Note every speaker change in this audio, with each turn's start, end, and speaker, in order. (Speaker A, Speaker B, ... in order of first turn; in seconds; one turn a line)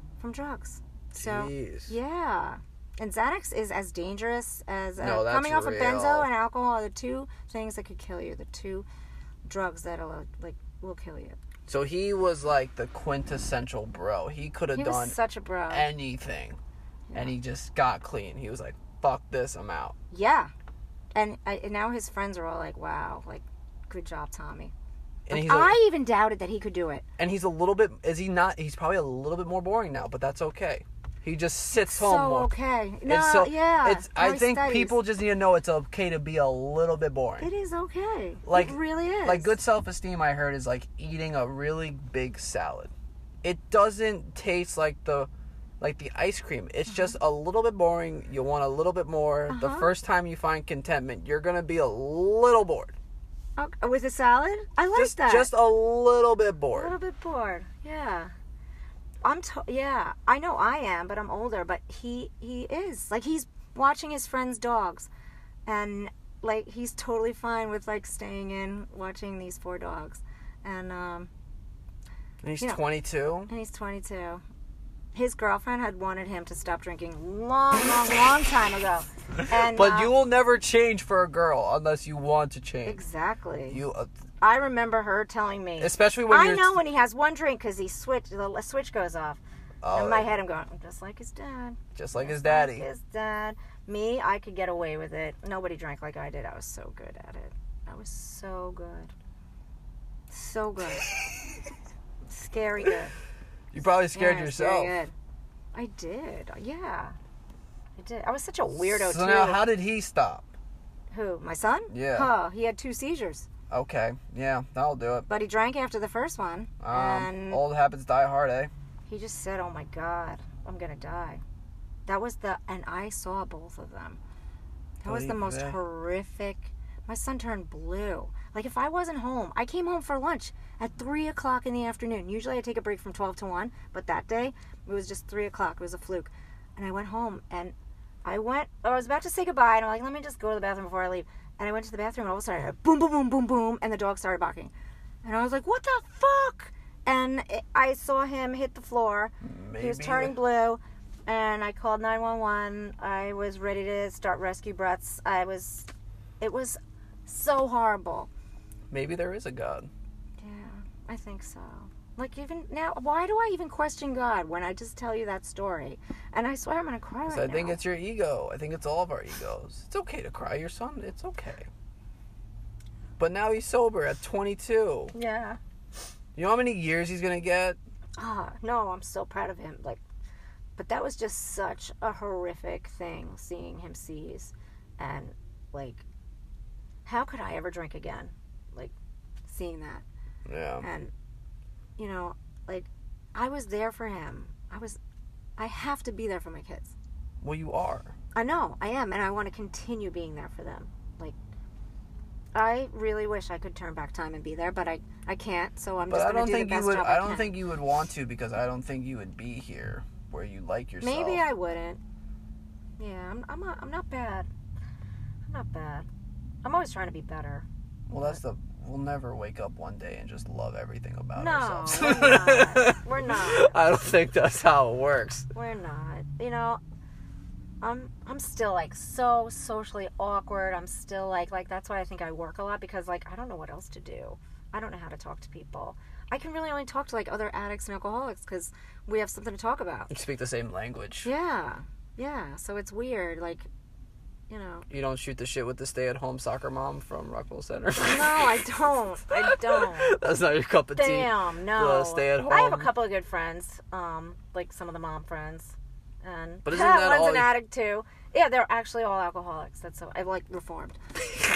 Speaker A: 0.2-8.9
Speaker B: 1.1-1.9
Speaker B: 5.0-6.3
Speaker A: 9.4-11.4
Speaker B: 11.7-15.2
Speaker A: 14.7-15.9
Speaker B: 15.7-16.6
Speaker B: 17.1-19.9
Speaker A: 20.1-20.5
Speaker A: 21.1-24.7
Speaker B: 25.3-25.8
Speaker A: 25.3-27.1
Speaker B: 27.2-32.5
Speaker A: 31.7-35.0
Speaker B: 33.1-37.5
Speaker A: 37.4-39.6
Speaker B: 38.5-42.9
Speaker B: 43.4-45.3
Speaker B: 45.8-53.0
Speaker A: 49.5-49.9
Speaker A: 53.6-55.5
Speaker B: 54.9-56.9
Speaker A: 56.7-58.3
Speaker A: 59.2-65.1
Speaker A: 65.7-71.3
Speaker B: 72.4-73.5
Speaker A: 73.5-74.4
Speaker A: 75.2-80.1
Speaker B: 79.5-83.0
Speaker A: 82.8-83.8
Speaker B: 83.7-84.1
Speaker A: 84.4-99.1
Speaker B: 85.8-86.8
Speaker B: 89.8-90.3
Speaker B: 92.0-92.9
Speaker A: 100.3-101.1
Speaker A: 102.3-103.2
Speaker B: 103.7-105.0
Speaker A: 104.1-105.1
Speaker A: 105.7-107.2
Speaker A: 108.0-109.7
Speaker B: 108.8-110.5
Speaker A: 111.1-113.5
Speaker B: 111.9-112.3
Speaker B: 113.7-115.3
Speaker A: 115.3-117.6
Speaker B: 116.8-118.7
Speaker A: 119.1-121.4
Speaker A: 122.1-124.2
Speaker A: 125.0-144.7
Speaker B: 125.0-125.8
Speaker A: 145.2-155.9
Speaker B: 149.4-150.4
Speaker A: 156.4-158.3
Speaker B: 158.9-159.9
Speaker A: 160.4-167.8
Speaker B: 167.3-171.7
Speaker B: 173.2-175.1
Speaker A: 175.1-175.6
Speaker B: 176.4-177.8
Speaker A: 178.2-180.0
Speaker A: 180.8-186.0
Speaker A: 187.1-188.9
Speaker A: 189.5-190.1
Speaker B: 190.5-190.8
Speaker A: 190.8-191.1
Speaker A: 192.0-195.0
Speaker A: 195.6-196.9
Speaker B: 197.4-198.1
Speaker A: 198.3-201.4
Speaker A: 202.6-207.6
Speaker B: 206.1-211.4
Speaker A: 211.0-212.0
Speaker A: 213.0-214.5
Speaker A: 215.5-216.1
Speaker A: 216.6-218.4
Speaker B: 218.1-225.5
Speaker A: 221.4-223.8
Speaker A: 225.5-226.8
Speaker A: 227.8-240.1
Speaker B: 240.1-241.3
Speaker A: 241.2-243.7
Speaker A: 244.5-244.9
Speaker B: 244.9-248.7
Speaker A: 248.0-250.2
Speaker B: 249.3-252.9
Speaker A: 251.0-261.0
Speaker B: 256.6-257.5